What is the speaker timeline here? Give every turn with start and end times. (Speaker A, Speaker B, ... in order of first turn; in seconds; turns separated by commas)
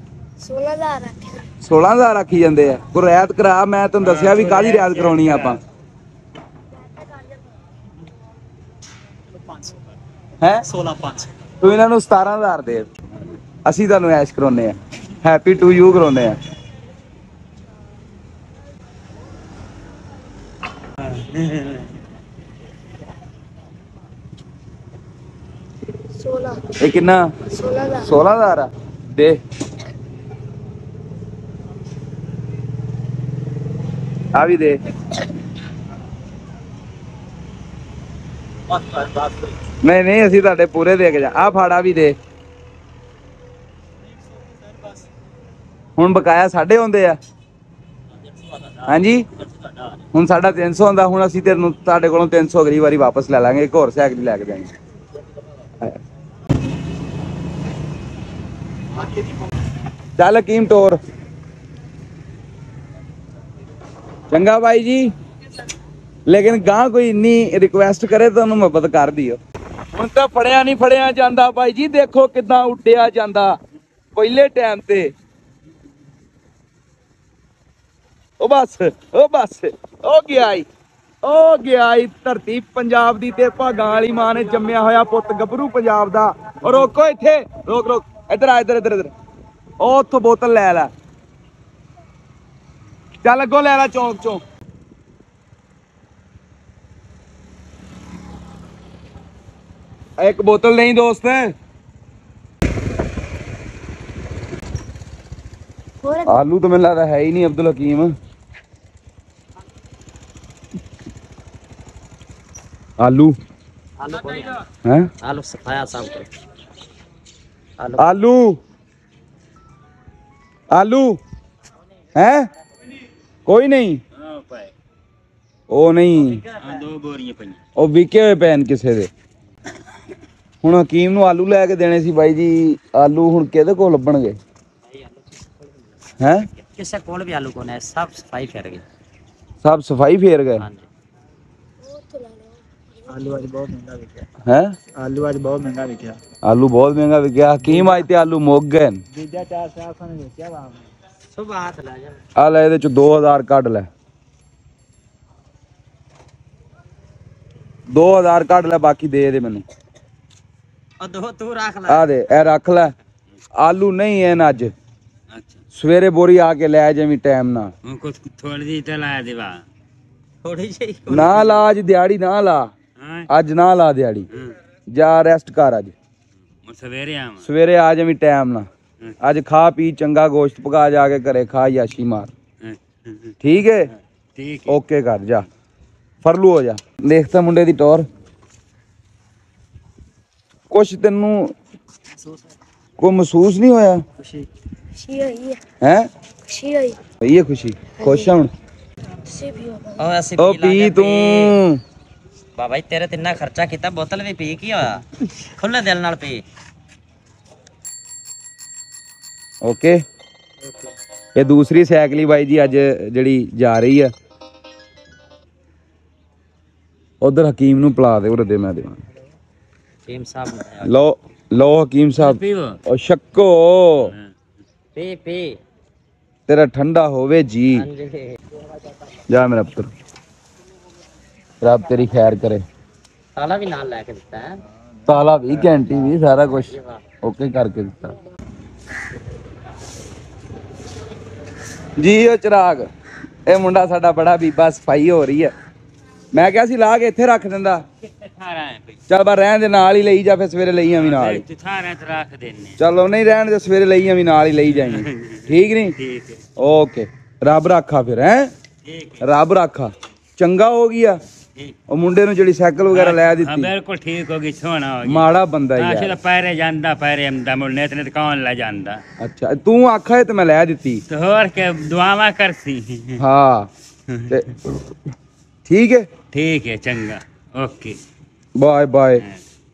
Speaker A: 0.4-1.4, Speaker B: 1.6-5.6, Speaker C: 4.0-5.6, Speaker D: 9.3-9.9, Speaker D: 10.7-11.3, Speaker B: 11.6-12.9, Speaker B: 13.6-16.4, Speaker C: 21.1-21.8, Speaker A: 26.2-26.6, Speaker B: 26.8-27.3, Speaker A: 27.5-28.1, Speaker B: 28.0-29.4, Speaker B: 34.3-34.8, Speaker B: 39.8-42.1, Speaker D: 44.3-44.9, Speaker B: 46.0-47.2, Speaker B: 48.8-49.3, Speaker B: 50.1-54.7, Speaker B: 60.2-61.0, Speaker B: 64.3-65.1, Speaker B: 66.3-69.4, Speaker B: 69.9-73.6, Speaker B: 74.1-75.1, Speaker B: 78.4-80.6, Speaker B: 81.2-89.1, Speaker B: 89.8-90.9, Speaker B: 93.2-94.4, Speaker B: 100.2-101.5, Speaker A: 106.0-106.4, Speaker B: 106.3-108.1, Speaker B: 113.0-113.3, Speaker E: 114.0-114.6, Speaker B: 114.8-115.1, Speaker E: 115.2-116.3, Speaker E: 117.8-118.1, Speaker B: 118.0-118.6, Speaker B: 120.7-121.2, Speaker B: 122.1-122.5, Speaker B: 123.5-124.0, Speaker C: 124.2-124.7, Speaker B: 125.7-126.5, Speaker C: 126.5-127.6, Speaker B: 127.8-129.1, Speaker B: 130.6-134.4, Speaker E: 134.9-135.9, Speaker B: 136.2-136.4, Speaker E: 136.6-138.8, Speaker B: 139.6-140.7, Speaker E: 140.6-140.8, Speaker A: 141.8-143.3, Speaker F: 143.1-144.3, Speaker B: 144.4-144.7, Speaker F: 144.9-146.2, Speaker B: 146.4-149.0, Speaker F: 147.6-147.9, Speaker F: 149.1-150.9, Speaker E: 151.3-152.2, Speaker B: 152.4-153.9, Speaker B: 157.9-159.6, Speaker E: 161.0-162.1, Speaker B: 161.9-162.9, Speaker B: 163.6-164.7, Speaker C: 165.3-165.6, Speaker B: 165.7-167.7, Speaker C: 167.8-169.6, Speaker E: 170.4-171.7, Speaker B: 171.1-172.7, Speaker C: 173.0-173.3, Speaker B: 173.3-174.3, Speaker B: 174.9-175.9, Speaker C: 176.6-177.4, Speaker B: 177.4-178.7, Speaker B: 179.2-182.3, Speaker C: 182.6-183.3, Speaker B: 183.4-183.9, Speaker C: 184.3-184.8, Speaker B: 184.7-185.5, Speaker B: 186.2-188.1, Speaker B: 190.7-191.5, Speaker B: 193.0-194.0, Speaker E: 194.2-194.4, Speaker A: 194.9-195.6, Speaker B: 195.8-196.1, Speaker A: 196.5-197.0, Speaker B: 197.2-198.5, Speaker A: 198.0-198.3, Speaker A: 199.2-200.1, Speaker E: 200.0-201.5, Speaker B: 200.4-201.8, Speaker E: 202.6-205.0, Speaker E: 205.6-206.4, Speaker B: 209.6-210.0, Speaker B: 211.3-214.1, Speaker B: 217.2-219.0, Speaker E: 220.1-220.9, Speaker B: 220.8-224.1, Speaker C: 222.2-222.8, Speaker C: 224.1-224.3, Speaker E: 224.9-225.6, Speaker B: 226.5-227.9, Speaker E: 227.7-228.3, Speaker B: 229.3-229.9, Speaker B: 231.6-232.6, Speaker E: 233.3-234.6, Speaker B: 235.1-238.1, Speaker E: 236.7-237.0, Speaker B: 242.0-242.9, Speaker B: 243.4-245.5, Speaker B: 246.3-247.8, Speaker C: 248.2-249.0, Speaker B: 249.1-251.4, Speaker C: 250.9-252.8, Speaker B: 252.8-255.9, Speaker C: 254.7-256.4, Speaker B: 256.6-258.5, Speaker C: 258.8-259.3, Speaker B: 259.2-261.2, Speaker B: 261.9-263.7, Speaker C: 262.9-269.0, Speaker B: 265.0-266.2, Speaker B: 269.2-271.0, Speaker C: 271.1-273.2, Speaker B: 273.2-273.7, Speaker C: 274.1-274.4, Speaker B: 274.3-274.6, Speaker B: 275.7-276.1, Speaker C: 276.3-278.0, Speaker B: 278.6-279.2